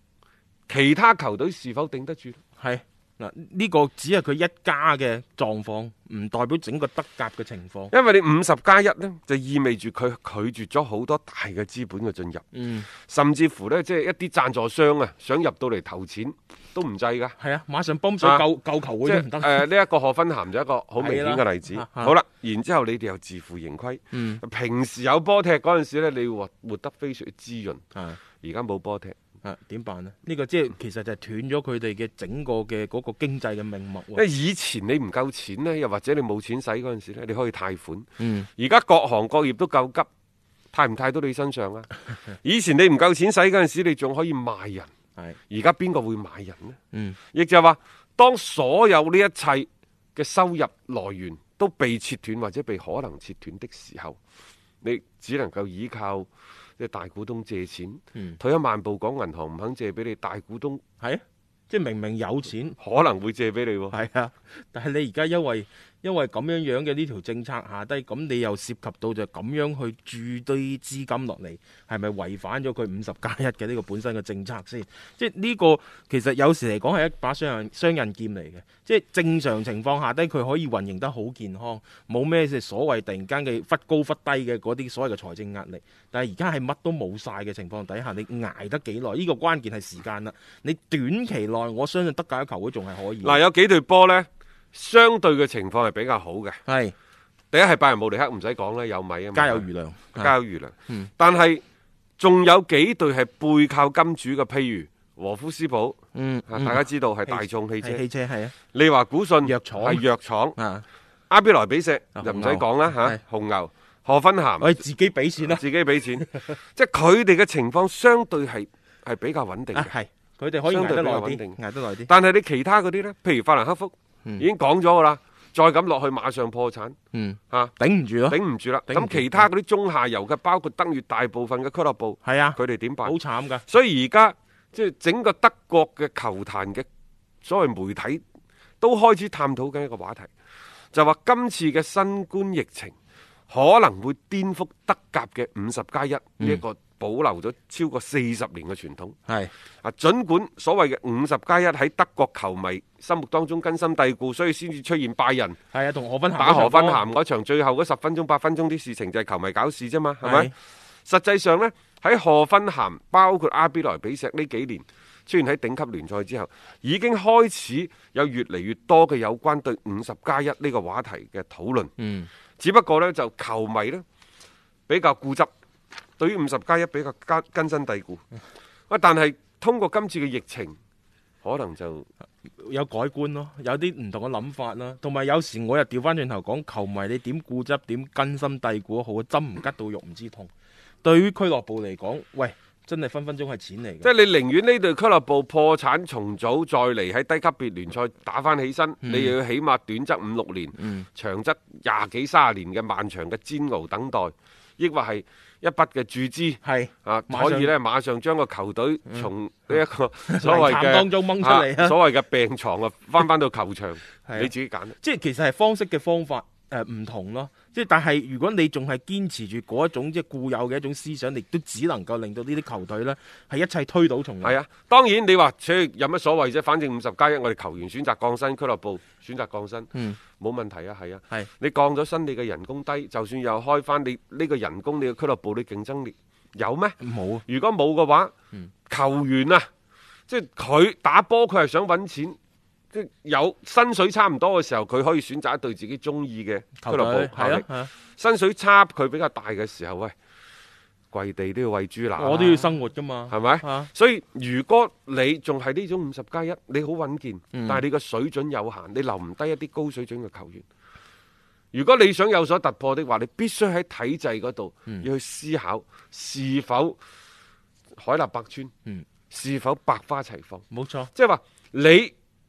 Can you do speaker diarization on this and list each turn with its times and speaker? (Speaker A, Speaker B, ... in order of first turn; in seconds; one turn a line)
Speaker A: 0.7-2.4
Speaker B: 2.6-7.9
Speaker A: 7.9-12.5
Speaker B: 12.5-12.9
Speaker A: 13.0-17.4
Speaker B: 17.4-19.7
Speaker A: 19.0-27.8
Speaker B: 21.0-22.1
Speaker B: 24.1-24.4
Speaker B: 27.9-28.2
Speaker A: 28.4-29.1
Speaker B: 29.4-34.2
Speaker A: 34.1-40.1
Speaker B: 38.2-38.5
Speaker A: 40.7-44.9
Speaker A: 45.5-46.8
Speaker B: 46.9-47.2
Speaker A: 47.3-54.2
Speaker A: 54.8-60.8
Speaker B: 61.0-62.8
Speaker A: 62.8-64.0
Speaker B: 63.9-93.4
Speaker A: 93.2-96.6
Speaker B: 96.7-96.9
Speaker A: 97.5-101.6
Speaker B: 99.3-100.3
Speaker A: 102.2-108.0
Speaker B: 106.1-108.5
Speaker A: 108.7-110.6
Speaker B: 109.4-110.0
Speaker B: 110.6-110.8
Speaker A: 111.3-114.8
Speaker B: 112.2-113.2
Speaker B: 114.6-115.6
Speaker A: 115.4-119.9
Speaker B: 116.2-116.5
Speaker B: 119.7-122.1
Speaker A: 120.7-127.0
Speaker B: 127.1-129.5
Speaker A: 128.3-133.2
Speaker B: 132.2-133.7
Speaker A: 133.7-136.9
Speaker A: 137.4-138.2
Speaker A: 138.8-140.3
Speaker A: 140.9-142.9
Speaker A: 143.5-149.2
Speaker B: 149.3-149.5
Speaker A: 149.8-155.6
Speaker B: 155.7-157.0
Speaker A: 156.4-160.5
Speaker B: 160.2-160.5
Speaker A: 161.1-171.9
Speaker B: 172.0-172.3
Speaker A: 172.6-174.1
Speaker A: 174.9-175.5
Speaker A: 176.2-178.2
Speaker A: 178.9-180.8
Speaker A: 181.4-182.1
Speaker B: 182.6-190.5
Speaker B: 191.0-194.1
Speaker A: 194.0-215.0
Speaker B: 199.0-199.4
Speaker B: 200.8-201.1
Speaker B: 206.6-207.7
Speaker B: 210.3-212.0
Speaker B: 214.3-224.6
Speaker A: 224.4-238.3
Speaker B: 229.9-230.2
Speaker B: 237.0-237.4
Speaker A: 238.9-239.7
Speaker A: 240.3-242.4
Speaker A: 242.9-250.1
Speaker B: 246.8-247.9
Speaker A: 251.1-252.7
Speaker B: 252.2-253.9
Speaker A: 253.3-260.6
Speaker B: 257.5-257.8
Speaker A: 261.7-267.0
Speaker A: 268.0-268.7
Speaker A: 269.3-272.1
Speaker B: 270.7-271.1